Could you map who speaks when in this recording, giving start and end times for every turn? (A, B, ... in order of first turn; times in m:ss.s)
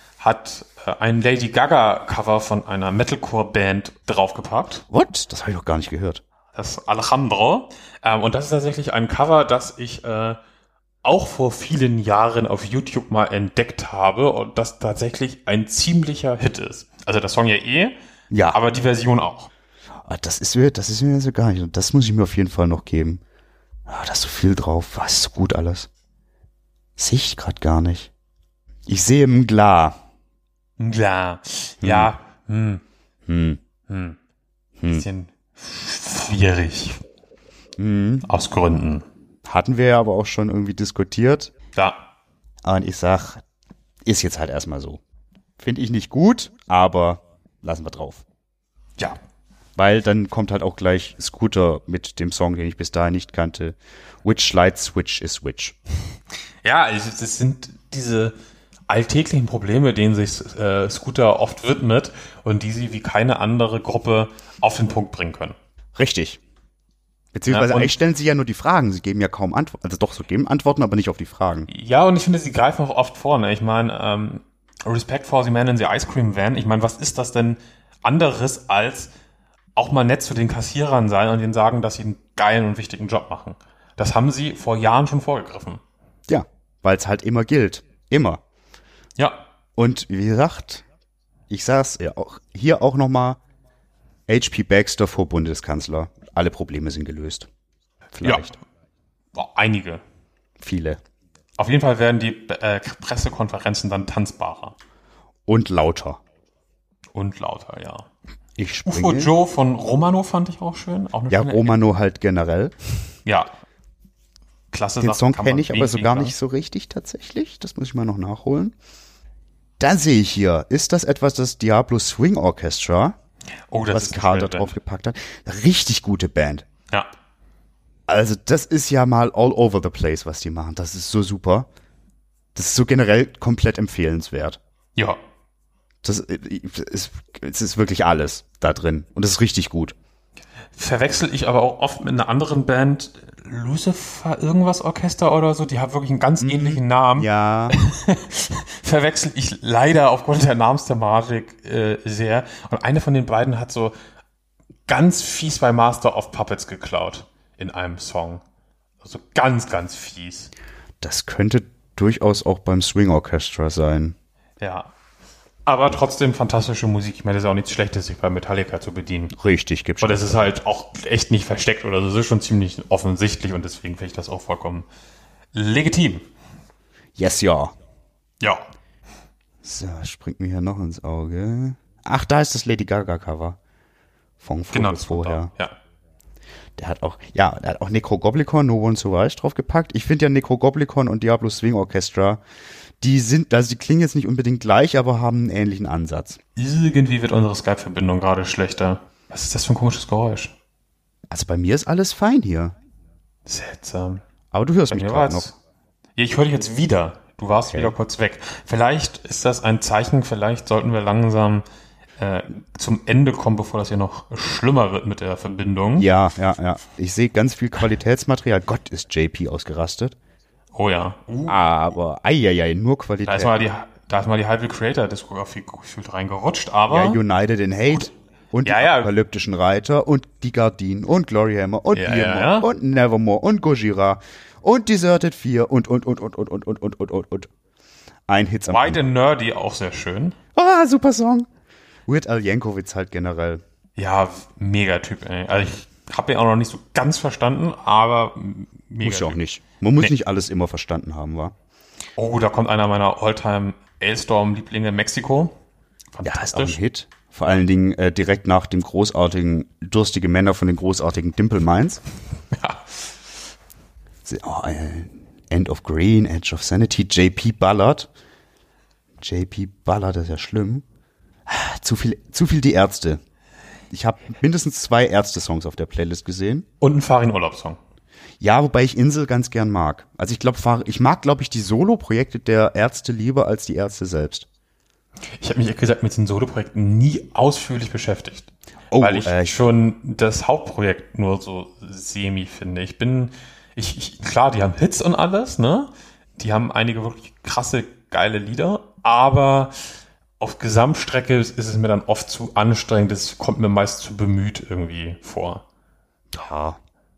0:00.2-0:04.9 A
0:04.9-0:06.2 B
0:06.6-0:10.4 A
0:11.0-0:18.0 A
0:18.3-0:18.6 B
0:18.5-0:19.5 A
0:20.0-0:23.2 B
0:23.9-0:25.9 B
0:27.0-0:28.1 B
0:28.9-0:30.0 B
0:30.8-0:32.8 A
0:31.8-0:32.1 B
0:33.3-0:33.6 B
0:33.9-0:34.2 A
0:34.8-0:35.0 B
0:34.9-0:37.0 A
0:37.8-0:38.3 B
0:38.3-0:39.0 A
0:39.5-0:41.5 B
0:41.8-0:42.0 A
0:42.6-0:43.4 B
0:44.0-0:45.0 B
0:45.6-0:48.2 B
0:49.8-0:55.8 B
0:56.6-0:58.4 A
0:58.9-1:05.6 A
1:06.0-1:06.4 B
1:07.3-1:11.7 B
1:07.5-1:07.9 A
1:11.7-1:19.1 A
1:19.8-1:25.8 A
1:26.3-1:28.4 B
1:29.8-1:30.8 B
1:31.5-1:33.4 B
1:34.3-1:37.5 B
1:38.1-1:38.6 B
1:38.2-1:38.6 A
1:39.4-1:40.0 A
1:40.6-1:41.0 B
1:41.6-1:44.8 A
1:45.5-1:46.2 B
1:47.1-1:48.1 A
1:48.6-1:49.3 B
1:48.9-1:51.8 A
1:51.3-1:52.8 B
1:53.3-1:53.5 A
1:54.7-1:56.4 A
1:55.0-1:58.7 B
1:59.8-2:03.2 B
2:03.7-2:04.7 A
2:03.9-2:06.6 B
2:08.1-2:11.7 B
2:12.6-2:14.6 B
2:16.0-2:20.0 B
2:20.7-2:34.0 A
2:26.4-2:27.8 B
2:34.9-2:38.4 A
2:39.0-2:40.5 A
2:41.0-2:44.2 B
2:44.6-2:44.9 A
2:45.7-2:49.3 A
2:49.4-2:50.4 B
2:50.0-2:54.9 A
2:55.5-2:56.2 A
2:57.2-2:57.7 B
2:59.6-3:03.6 B
3:04.4-3:05.5 B
3:04.7-3:05.7 A
3:06.8-3:12.4 B
3:13.0-3:16.4 B
3:16.6-3:20.5 A
3:21.3-3:22.8 B
3:23.5-3:24.2 A
3:24.5-3:25.6 B
3:24.9-3:25.5 A
3:26.2-3:31.6 A
3:32.2-3:36.1 A
3:36.0-3:40.2 B
3:40.7-3:41.6 A
3:41.5-3:43.6 B
3:43.3-3:47.2 A
3:46.9-3:57.5 B
3:48.6-3:49.1 A
3:51.9-3:52.7 A
3:58.3-3:59.0 B
3:58.7-4:00.4 A
4:00.6-4:01.5 B
4:02.1-4:03.6 B
4:04.0-4:09.4 A
4:09.0-4:11.5 B
4:12.2-4:15.6 A
4:16.1-4:16.8 A
4:16.2-4:22.0 B
4:22.5-4:23.1 A
4:24.2-4:28.1 B
4:29.2-4:30.8 B
4:31.5-4:33.2 B
4:33.9-4:36.7 B
4:36.8-4:37.8 A
4:38.4-4:44.5 B
4:45.4-4:48.5 A
4:48.9-4:49.6 B
4:49.0-5:05.6 A
5:06.3-5:06.8 B